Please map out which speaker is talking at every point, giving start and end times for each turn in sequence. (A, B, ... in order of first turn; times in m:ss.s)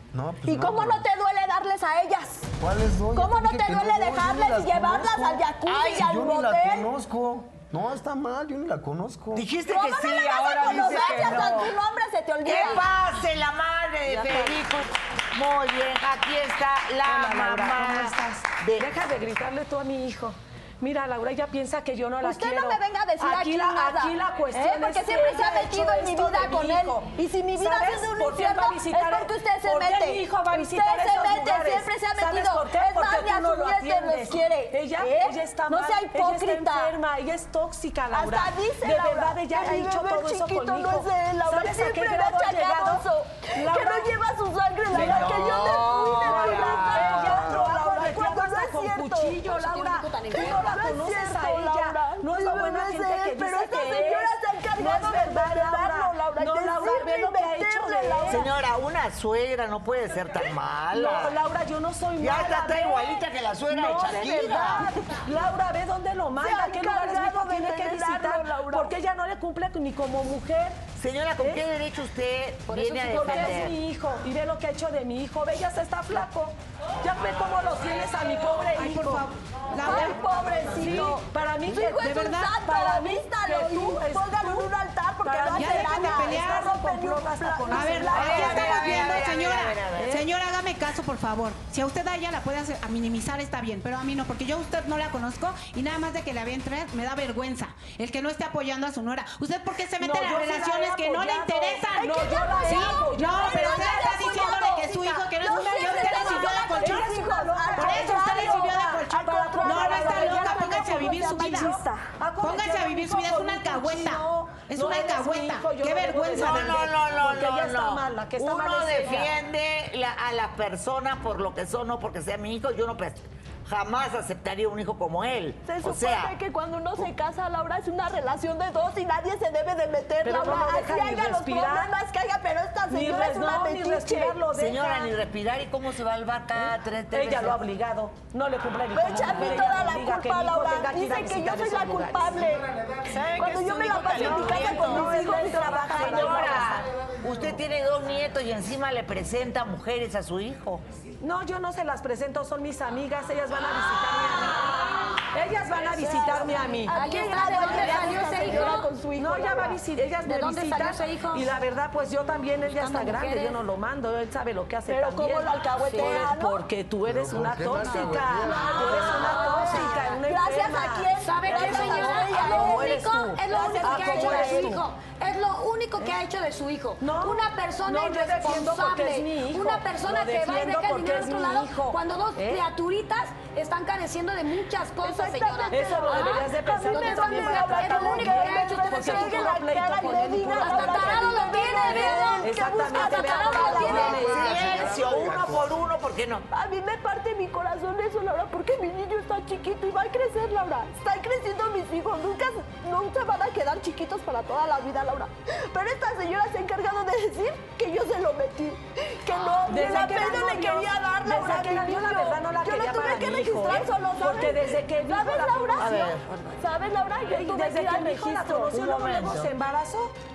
0:00.1-0:01.0 A
0:00.4-0:02.5 B
0:02.6-0:09.5 A
0:03.1-0:06.9 B
0:05.7-0:06.0 C
0:09.3-0:11.8 C
0:09.6-0:12.8 B
0:12.4-0:18.9 C
0:14.1-0:14.5 D
0:17.0-0:43.0 D
0:22.2-0:36.9 B
0:38.1-0:49.4 B
0:43.5-0:44.1 D
0:44.9-0:47.4 C
0:44.9-0:45.5 D
0:46.1-0:58.5 D
0:49.4-0:50.7 E
0:50.3-0:58.5 B
0:58.3-1:01.4 C
1:00.9-1:10.8 D
1:02.2-1:04.9 C
1:06.4-1:08.9 B
1:11.0-1:13.8 C
1:12.7-1:13.7 E
1:12.9-1:19.2 D
1:18.7-1:20.1 F
1:19.8-1:24.7 D
1:19.8-1:28.9 B
1:22.2-1:22.5 F
1:25.2-1:28.8 D
1:25.6-1:26.7 F
1:27.7-1:47.1 F
1:28.1-1:30.2 C
1:40.0-1:59.3 D
1:42.0-1:52.1 B
1:47.7-1:51.8 F
1:52.4-1:56.9 F
1:56.3-2:06.3 C
2:05.6-2:14.4 B
2:10.2-2:11.9 D
2:12.9-2:15.1 D
2:14.5-2:17.6 C
2:16.6-2:22.4 D
2:18.9-2:22.6 B
2:23.0-2:25.1 G
2:23.4-2:26.8 B
2:24.0-2:26.8 D
2:25.9-2:30.8 C
2:31.2-2:54.8 D
2:35.9-2:39.8 B
2:36.9-2:38.9 E
2:40.2-2:41.5 E
2:42.7-2:43.6 E
2:44.9-2:46.6 B
2:45.8-2:46.2 E
2:47.0-2:49.3 A
2:48.4-2:50.2 E
2:48.5-2:54.8 B
2:51.2-3:14.3 E
2:57.0-3:02.6 D
3:05.0-3:15.3 B
3:05.7-3:14.8 D
3:14.0-3:16.4 C
3:14.0-3:15.7 A
3:16.5-3:38.8 B
3:29.7-3:36.1 D
3:35.8-3:36.3 C
3:37.3-3:40.1 D
3:38.7-3:39.5 C